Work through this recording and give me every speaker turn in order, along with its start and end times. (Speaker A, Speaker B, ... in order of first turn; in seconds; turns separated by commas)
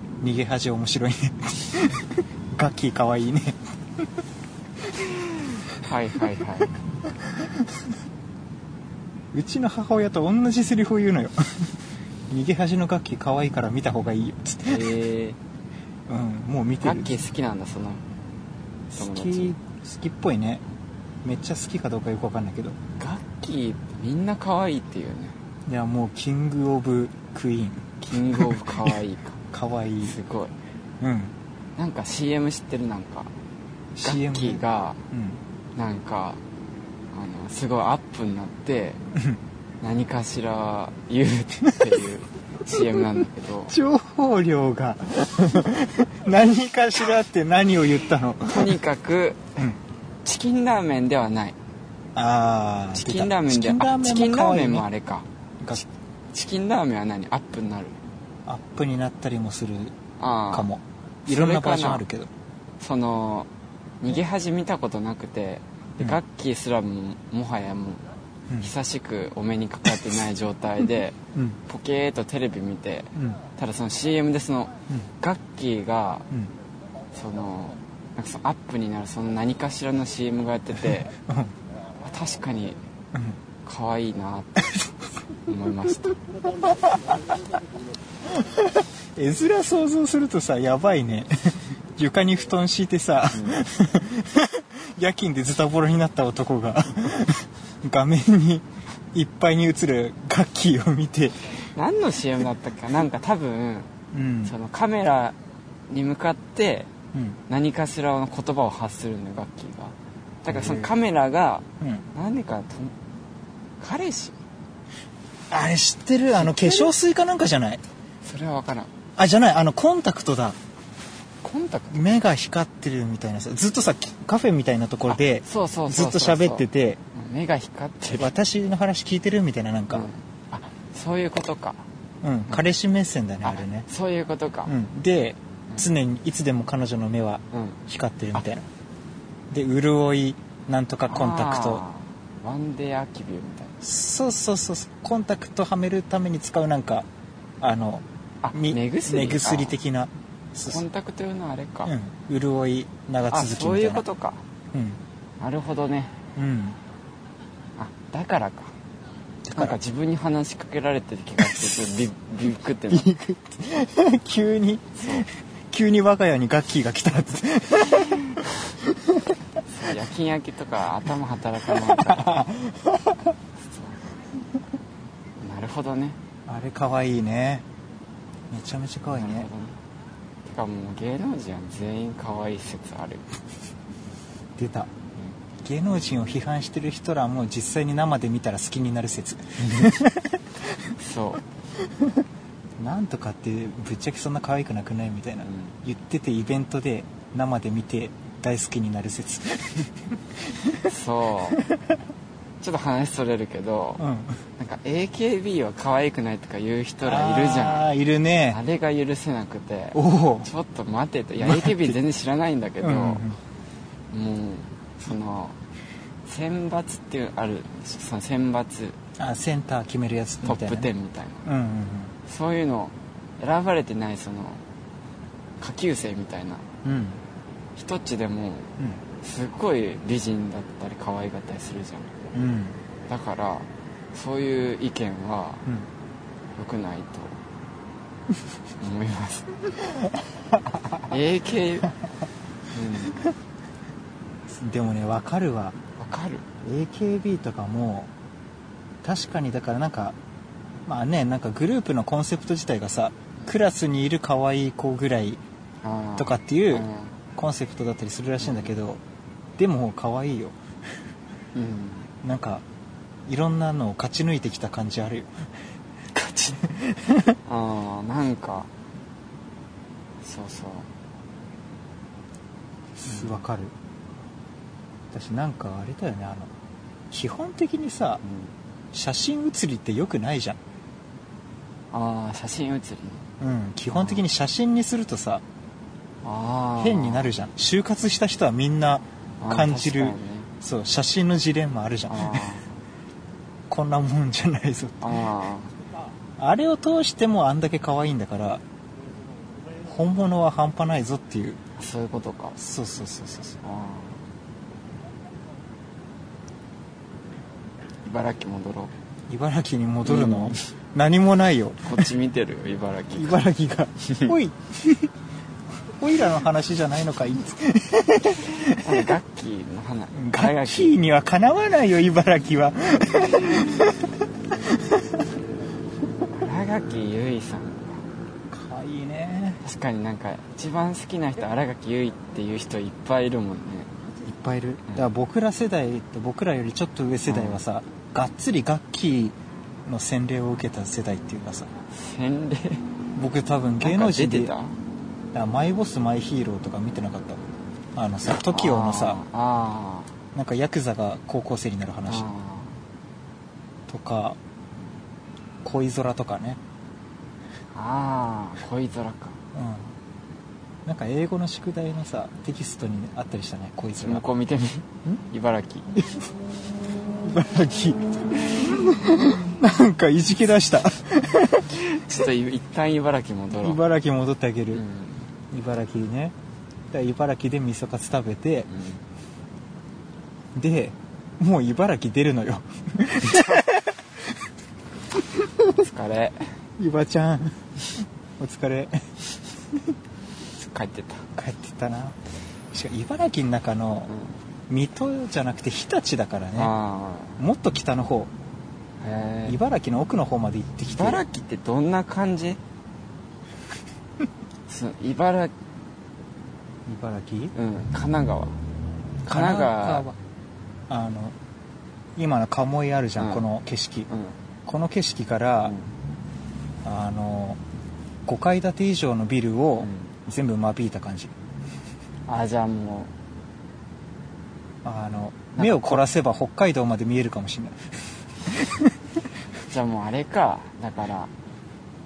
Speaker A: 0.2-4.0, Speaker B: 5.0-6.7, Speaker A: 7.1-7.9, Speaker A: 9.3-11.7, Speaker A: 12.3-14.9, Speaker B: 14.7-15.4, Speaker A: 16.1-17.2, Speaker B: 16.8-18.0, Speaker A: 18.9-20.6, Speaker B: 19.0-19.6, Speaker A: 21.2-22.8, Speaker B: 23.0-25.4, Speaker A: 25.7-29.0, Speaker B: 28.0-29.4, Speaker A: 29.5-30.2, Speaker B: 30.0-30.5, Speaker A: 31.0-31.4, Speaker B: 31.8-33.3, Speaker A: 34.0-35.4, Speaker B: 34.0-35.0, Speaker B: 35.8-36.4, Speaker B: 37.1-39.0, Speaker A: 39.1-39.4, Speaker B: 39.8-43.8, Speaker A: 41.7-42.0, Speaker A: 42.7-48.8, Speaker B: 48.5-49.6, Speaker B: 50.2-51.6, Speaker A: 52.1-54.9, Speaker B: 52.9-58.0, Speaker A: 58.5-60.0, Speaker B: 60.2-60.7, Speaker A: 60.5-62.3, Speaker B: 61.3-62.0, Speaker B: 62.8-63.5, Speaker B: 64.0-68.0, Speaker B: 68.6-76.3, Speaker B: 77.1-81.1, Speaker A: 81.2-81.5, Speaker B: 82.0-82.8, Speaker B: 83.6-84.8, Speaker B: 85.5-86.2, Speaker A: 86.6-87.2, Speaker A: 88.3-101.4, Speaker B: 93.3-93.7, Speaker B: 101.7-103.9, Speaker A: 104.1-104.5, Speaker B: 104.5-105.4, Speaker B: 105.9-106.9, Speaker A: 107.1-107.4, Speaker B: 107.5-112.9, Speaker A: 110.5-110.9, Speaker A: 111.8-112.1, Speaker B: 113.8-114.4, Speaker A: 115.5-117.8, Speaker B: 116.4-116.9, Speaker B: 118.2-118.9, Speaker A: 119.2-120.6, Speaker B: 121.4-122.0, Speaker A: 121.9-127.0, Speaker B: 125.1-128.3, Speaker A: 128.1-130.1, Speaker B: 129.9-131.8, Speaker A: 132.2-133.9, Speaker B: 133.4-134.7, Speaker A: 134.7-138.7, Speaker B: 137.5-137.8, Speaker A: 139.5-141.8, Speaker B: 141.1-143.8, Speaker A: 143.8-147.1, Speaker A: 147.6-150.8, Speaker B: 148.4-149.8, Speaker B: 150.7-151.9, Speaker A: 151.9-154.0, Speaker B: 153.3-154.4, Speaker A: 154.7-155.0, Speaker B: 155.4-156.1, Speaker A: 156.4-156.8, Speaker B: 157.8-158.7, Speaker A: 159.5-159.8, Speaker B: 159.6-163.1, Speaker A: 161.4-161.9, Speaker A: 162.9-169.3, Speaker B: 165.0-165.3, Speaker B: 169.7-172.4, Speaker A: 171.7-173.3, Speaker B: 173.7-174.0, Speaker B: 175.4-176.2, Speaker A: 176.5-177.7, Speaker A: 178.5-179.5, Speaker B: 179.1-179.8, Speaker B: 180.4-183.2, Speaker A: 184.6-184.9, Speaker A: 185.6-190.9, Speaker B: 189.6-190.0, Speaker B: 191.0-191.4, Speaker A: 192.8-200.9, Speaker B: 195.4-195.8, Speaker B: 200.8-201.6, Speaker A: 201.5-201.8, Speaker B: 202.6-204.0, Speaker A: 204.0-204.4, Speaker B: 204.6-207.9, Speaker A: 207.0-208.6, Speaker B: 208.5-213.2, Speaker A: 209.9-210.5, Speaker A: 211.4-212.0, Speaker A: 212.8-213.4, Speaker B: 214.1-215.6, Speaker B: 216.3-219.0, Speaker A: 219.2-220.9, Speaker B: 220.4-221.5, Speaker A: 221.4-222.2, Speaker B: 222.3-224.6, Speaker B: 225.6-226.6, Speaker A: 226.8-227.2, Speaker B: 227.8-232.1, Speaker A: 232.3-232.8, Speaker B: 233.1-235.7, Speaker B: 236.6-237.4, Speaker B: 238.8-239.5, Speaker A: 239.9-241.1, Speaker B: 241.0-241.9, Speaker B: 242.7-243.3, Speaker A: 244.5-245.8, Speaker B: 246.0-246.4, Speaker A: 246.6-248.1, Speaker A: 249.0-250.2, Speaker A: 250.9-255.4, Speaker B: 255.8-257.1, Speaker A: 256.2-259.0, Speaker B: 258.4-258.7, Speaker A: 259.6-260.6, Speaker B: 261.6-262.1, Speaker A: 262.2-262.6, Speaker A: 263.3-265.5, Speaker B: 266.1-266.6, Speaker A: 266.5-267.4, Speaker B: 267.4-268.7, Speaker B: 270.2-270.9, Speaker A: 273.0-273.7, Speaker B: 273.1-273.4, Speaker A: 275.1-276.5, Speaker A: 277.1-278.2, Speaker B: 278.2-278.5, Speaker A: 278.9-280.6, Speaker B: 281.9-283.2, Speaker A: 283.4-285.4, Speaker B: 283.9-284.2, Speaker B: 286.2-287.3, Speaker A: 286.8-292.5, Speaker B: 289.4-290.5, Speaker B: 292.1-292.7, Speaker A: 293.7-295.2, Speaker B: 295.0-295.7, Speaker A: 296.4-298.6, Speaker A: 299.8-301.6, Speaker B: 301.8-302.6, Speaker A: 302.6-303.6, Speaker B: 303.6-304.2, Speaker B: 308.1-308.9, Speaker A: 309.3-312.1, Speaker B: 310.1-310.7, Speaker B: 311.9-313.4, Speaker A: 313.1-315.1, Speaker B: 314.0-314.3, Speaker A: 316.0-319.1, Speaker B: 318.6-320.9, Speaker A: 320.1-324.2, Speaker A: 324.7-325.1, Speaker B: 326.3-328.0, Speaker A: 328.5-329.6, Speaker B: 329.6-333.9, Speaker A: 334.2-341.7, Speaker B: 337.3-337.6, Speaker B: 341.9-342.9, Speaker A: 343.1-344.5, Speaker B: 343.8-344.8, Speaker A: 345.3-347.4, Speaker A: 347.9-349.2, Speaker B: 348.5-350.1, Speaker A: 350.3-352.3, Speaker B: 352.1-352.8, Speaker A: 353.9-354.4, Speaker A: 355.6-356.6, Speaker B: 357.7-359.4, Speaker A: 359.5-359.9, Speaker A: 360.9-364.2, Speaker B: 364.0-365.9, Speaker A: 366.0-366.3, Speaker A: 367.2-371.9, Speaker B: 371.7-373.8, Speaker A: 373.6-374.8, Speaker B: 374.7-375.3, Speaker A: 375.5-376.3, Speaker A: 376.9-378.7, Speaker B: 378.7-379.0, Speaker A: 380.6-384.1, Speaker A: 385.4-385.7, Speaker B: 385.7-386.5, Speaker A: 386.8-387.6, Speaker A: 388.4-389.2, Speaker B: 390.6-391.3, Speaker A: 391.4-392.2, Speaker A: 392.7-394.1, Speaker B: 394.1-394.4, Speaker A: 394.7-396.7, Speaker B: 396.6-397.4, Speaker A: 397.4-398.3, Speaker B: 399.0-399.6, Speaker A: 399.5-401.2, Speaker B: 401.0-402.6, Speaker B: 404.7-405.5, Speaker A: 406.9-407.5, Speaker B: 407.6-408.6, Speaker B: 409.3-410.1, Speaker A: 409.3-410.2, Speaker A: 410.9-411.4, Speaker A: 412.2-414.1, Speaker B: 413.2-413.5, Speaker B: 414.1-414.4, Speaker A: 414.7-415.8, Speaker A: 416.8-417.6, Speaker A: 418.3-421.3, Speaker B: 419.8-420.1, Speaker B: 422.3-423.1, Speaker A: 424.8-427.9, Speaker B: 425.6-426.0, Speaker A: 428.4-429.0, Speaker B: 429.7-431.3